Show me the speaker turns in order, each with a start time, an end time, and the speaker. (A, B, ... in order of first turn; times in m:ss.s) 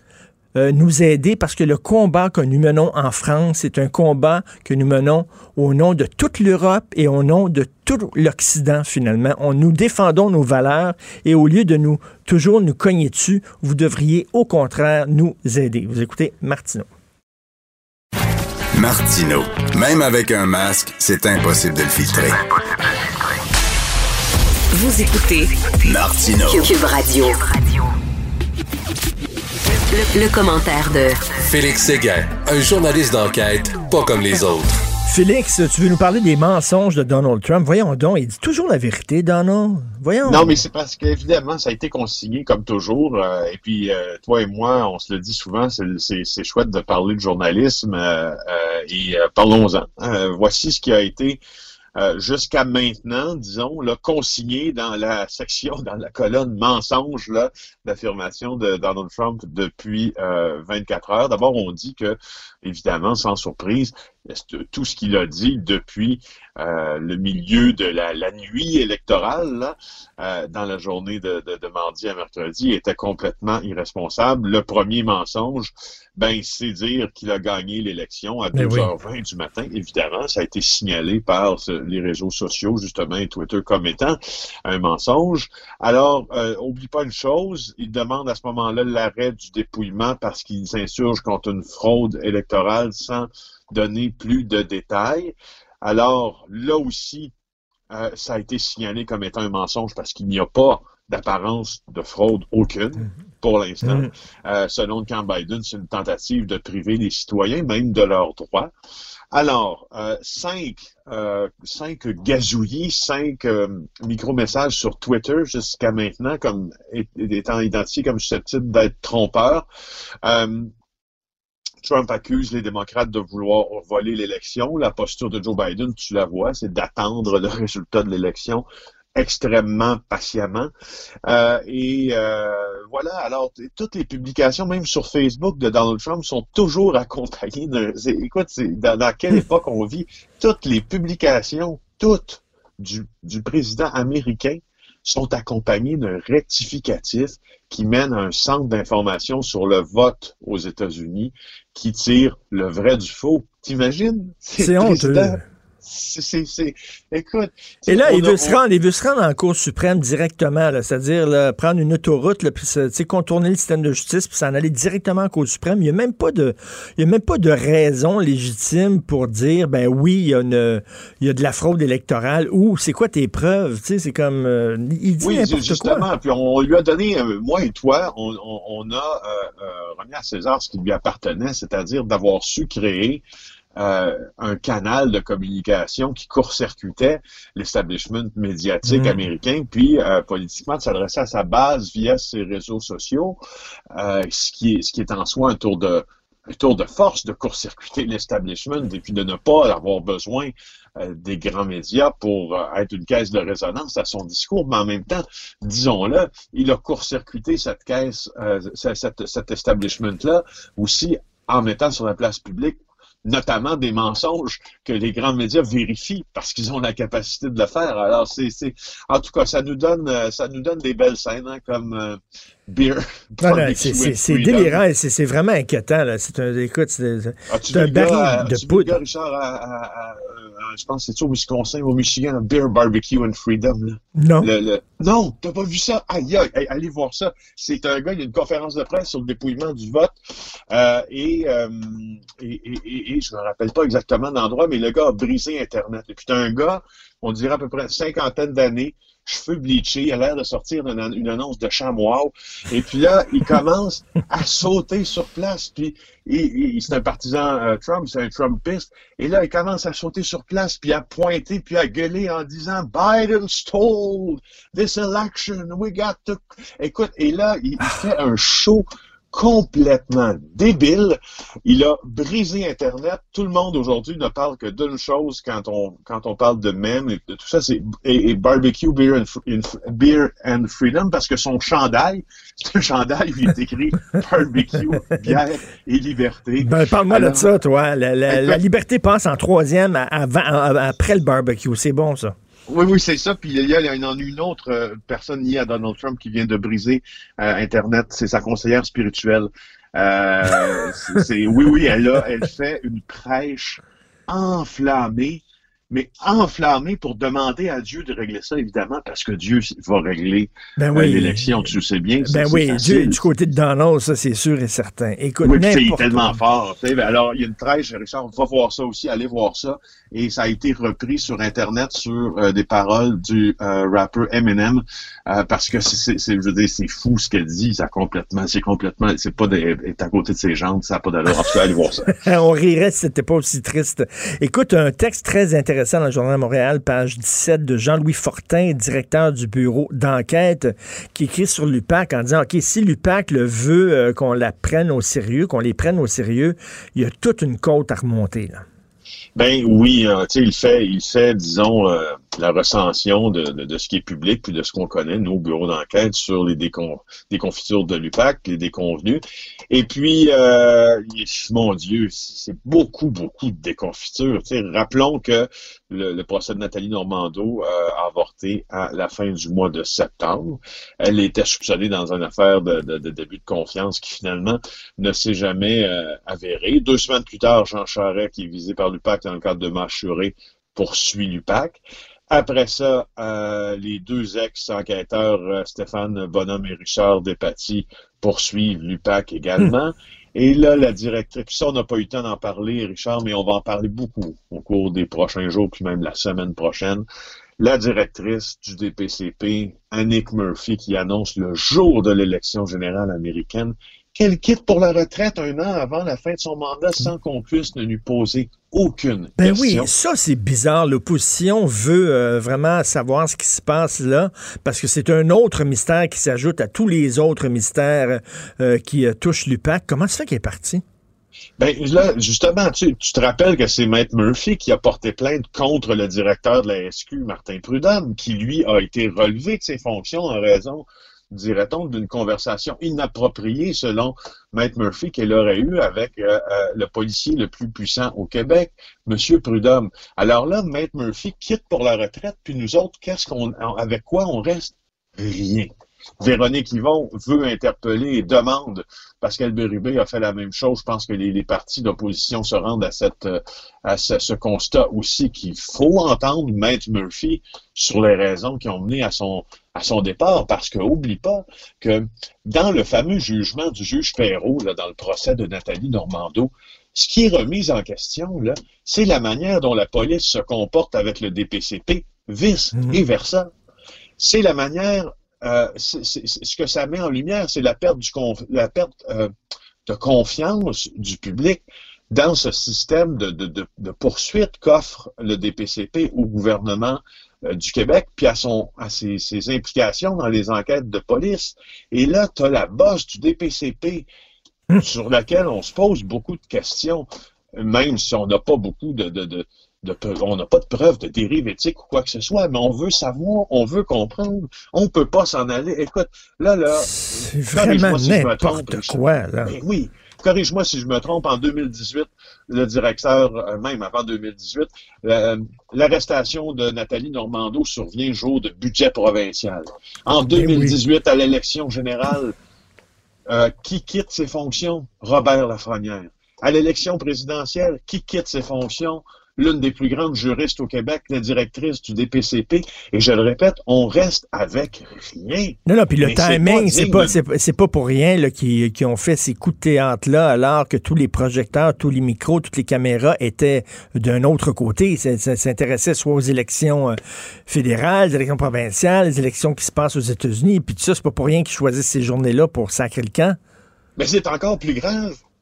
0:00.6-0:16.9 A
0:18.7-0:22.4 B
0:24.7-0:25.5 C
0:25.8-0:26.7 B
0:26.5-0:27.9 C
0:29.9-0:31.2 C
0:31.4-0:34.8 D
0:35.0-0:40.6 A
0:40.2-0:51.4 E
0:52.0-1:37.3 E
1:18.5-1:18.9 A
1:37.9-1:48.7 E
1:49.3-1:59.6 E
2:00.2-2:00.7 E
2:01.8-2:10.7 E
2:11.2-2:38.6 E
2:34.6-2:35.4 A
2:37.9-2:56.1 A
2:55.2-3:03.2 E
3:03.8-3:13.4 E
3:08.8-3:09.2 A
3:13.9-3:44.8 E
3:43.4-3:49.0 A
3:47.5-4:00.2 E
3:54.2-3:54.5 A
4:00.7-4:47.5 E
4:46.6-4:52.3 A
4:48.3-4:48.6 E
4:52.7-5:13.2 E
5:10.8-5:11.7 A
5:12.2-5:16.3 A
5:15.4-5:32.1 E
5:32.2-5:48.6 A
5:49.4-6:37.0 E
6:37.6-6:49.9 E
6:49.4-7:00.8 A
7:01.6-7:53.5 E
7:54.2-7:59.3 E
7:59.8-8:14.1 E
8:14.8-8:42.4 E
8:26.8-8:29.5 A
8:40.3-8:40.8 A
8:43.3-8:57.2 E
8:55.7-9:07.0 A
9:07.5-9:13.4 A
9:14.0-9:15.2 E